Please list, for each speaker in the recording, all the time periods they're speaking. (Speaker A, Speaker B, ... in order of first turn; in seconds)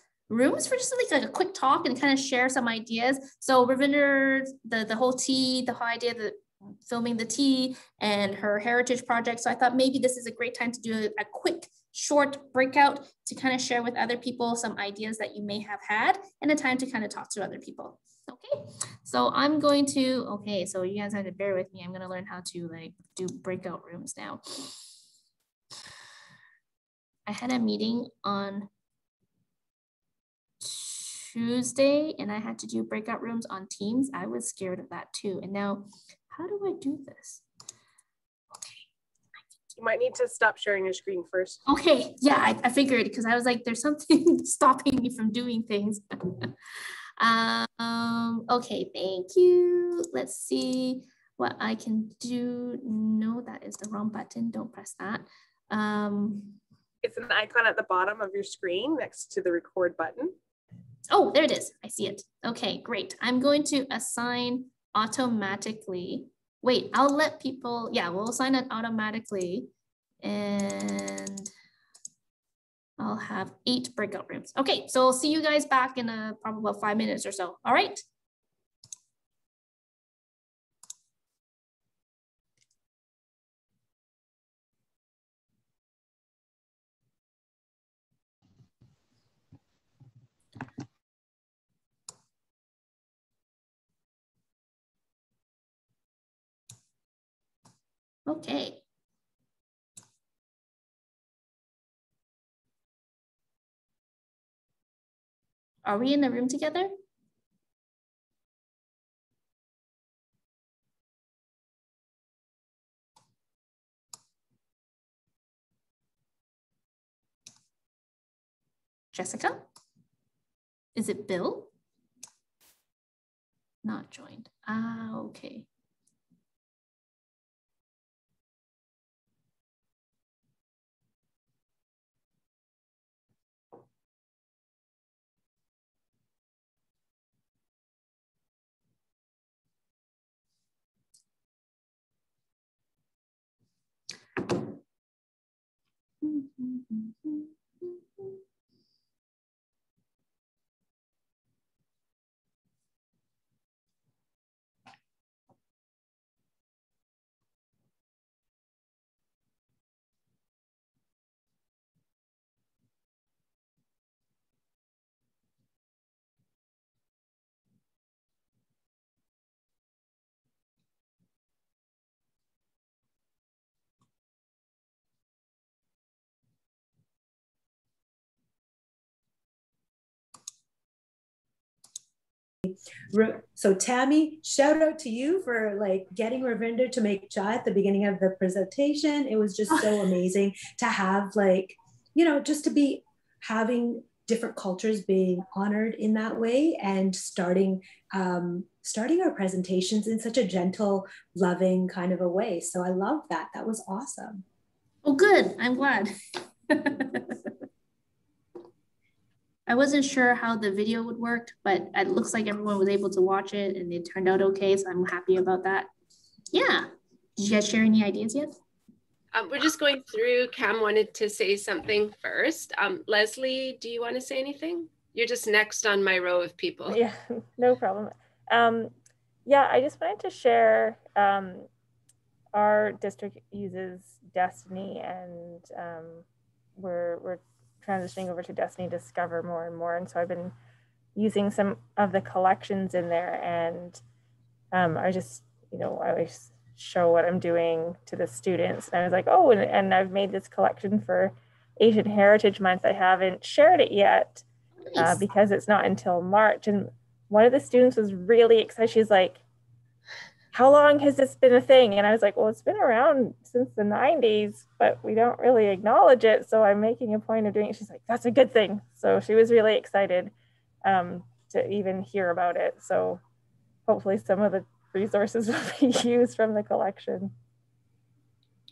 Speaker A: 0.3-24.8, 27.3-28.7, 30.6-37.4, 41.7-46.5, 47.2-56.6, 61.1-69.7, 70.2-71.5, 73.0-78.0, 98.3-98.8, 105.8-106.9, 119.1-119.7, 121.0-121.7, 123.8-125.7, 146.2-147.5, 205.1-206.1, 206.7-207.5, 209.7-215.9, 216.5-218.6, 254.8-255.2
Speaker B: 39.8-41.6, 57.0-60.3
Speaker C: 182.7-204.4
Speaker D: 219.3-227.0
Speaker E: 226.9-228.9, 229.4-231.7, 232.5-236.2, 236.8-240.6, 241.2-244.0, 244.7-254.4, 255.0-259.4, 260.5-270.3, 270.8-273.2, 273.9-277.3